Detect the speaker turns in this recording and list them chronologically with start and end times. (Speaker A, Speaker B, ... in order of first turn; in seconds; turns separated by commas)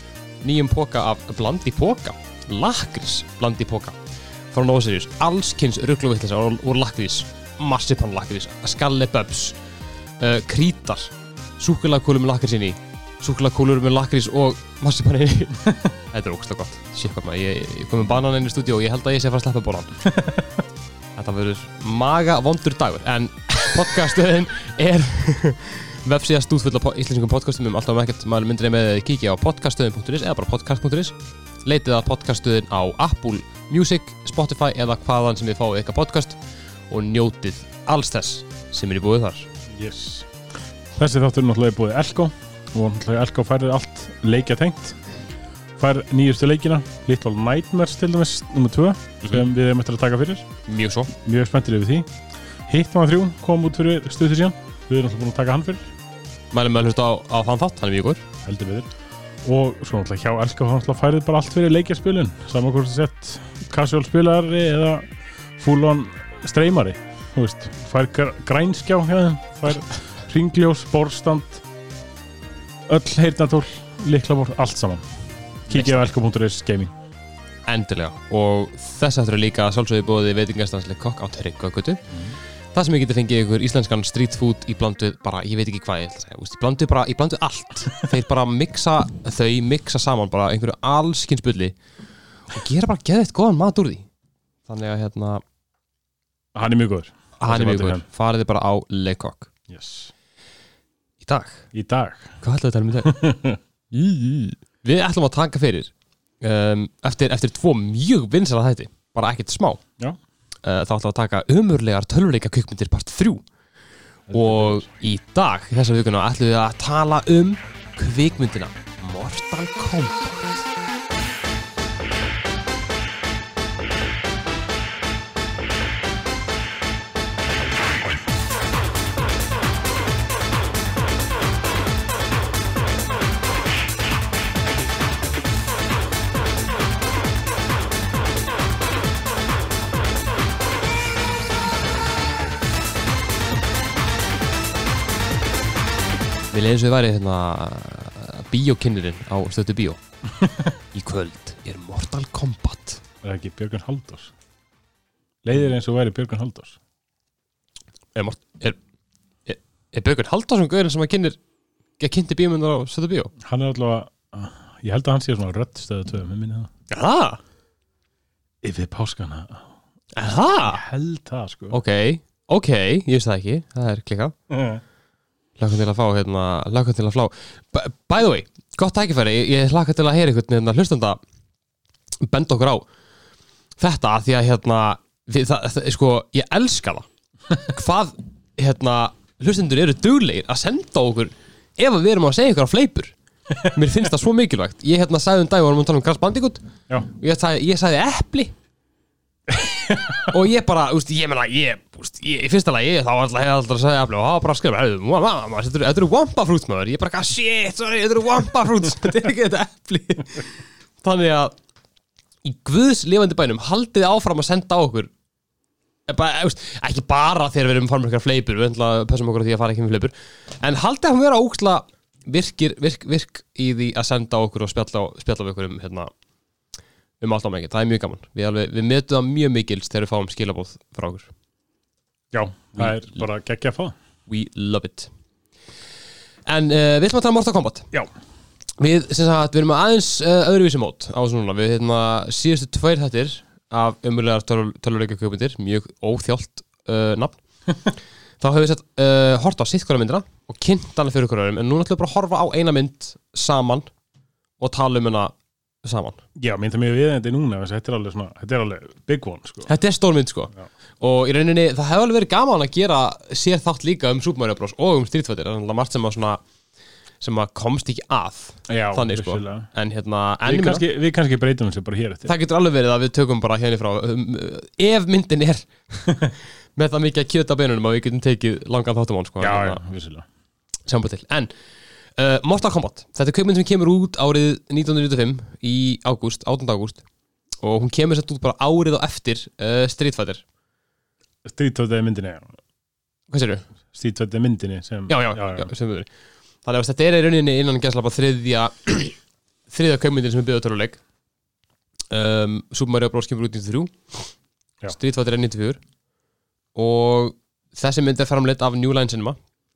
Speaker A: 0.4-4.0, Speaker A: 4.5-9.6, Speaker A: 10.2-20.0, Speaker B: 20.1-20.6, Speaker A: 21.2-36.4, Speaker A: 36.9-39.5, Speaker B: 39.7-40.3, Speaker B: 41.0-45.0, Speaker B: 45.8-50.5, Speaker A: 50.7-51.1, Speaker B: 51.2-52.1, Speaker B: 52.7-55.8, Speaker A: 56.5-58.3, Speaker B: 58.4-58.9, Speaker B: 59.4-71.6, Speaker B: 72.9-75.0, Speaker B: 75.7-76.9, Speaker A: 75.7-76.1, Speaker A: 77.7-82.0, Speaker A: 82.7-91.8, Speaker A: 92.5-94.1, Speaker A: 94.7-95.4, Speaker B: 96.5-98.0, Speaker A: 97.4-99.5, Speaker B: 99.7-100.1, Speaker A: 101.2-101.7, Speaker B: 101.7-102.3, Speaker A: 102.4-103.2, Speaker B: 103.0-103.6, Speaker A: 103.9-109.8, Speaker A: 110.6-113.4, Speaker B: 114.3-114.8, Speaker A: 114.3-120.6, Speaker A: 146.5-150.0, Speaker A: 150.9-153.0, Speaker B: 153.2-154.3, Speaker B: 155.4-156.8, Speaker A: 158.2-158.8, Speaker A: 159.5-161.4, Speaker A: 162.0-163.3, Speaker B: 163.4-166.7, Speaker A: 166.9-167.4, Speaker B: 168.6-169.7, Speaker A: 170.2-170.8, Speaker B: 170.7-171.8, Speaker A: 171.7-174.3, Speaker B: 174.5-174.8, Speaker A: 175.6-181.2, Speaker A: 182.2-182.8, Speaker A: 183.8-193.1, Speaker B: 193.5-193.8, Speaker A: 193.7-198.5, Speaker B: 199.5-200.3, Speaker A: 200.2-211.6, Speaker A: 212.4-215.1, Speaker A: 216.1-226.1, Speaker A: 227.2-231.3, Speaker B: 232.3-233.9, Speaker A: 234.3-235.1, Speaker A: 236.5-237.9, Speaker A: 238.8-247.4, Speaker A: 248.4-253.9, Speaker A: 254.6-256.2, Speaker B: 256.4-259.7, Speaker A: 259.7-266.4, Speaker A: 267.2-270.9, Speaker B: 268.7-269.7, Speaker B: 270.4-272.3, Speaker A: 272.3-279.8, Speaker B: 279.4-280.2, Speaker A: 280.9-281.5, Speaker A: 282.2-287.0, Speaker A: 287.6-290.4, Speaker B: 291.4-292.5, Speaker A: 293.3-293.6, Speaker B: 293.9-295.7, Speaker A: 295.1-296.1, Speaker A: 296.6-299.2, Speaker A: 299.7-301.0, Speaker A: 302.1-303.9, Speaker A: 304.9-305.8, Speaker A: 306.8-309.4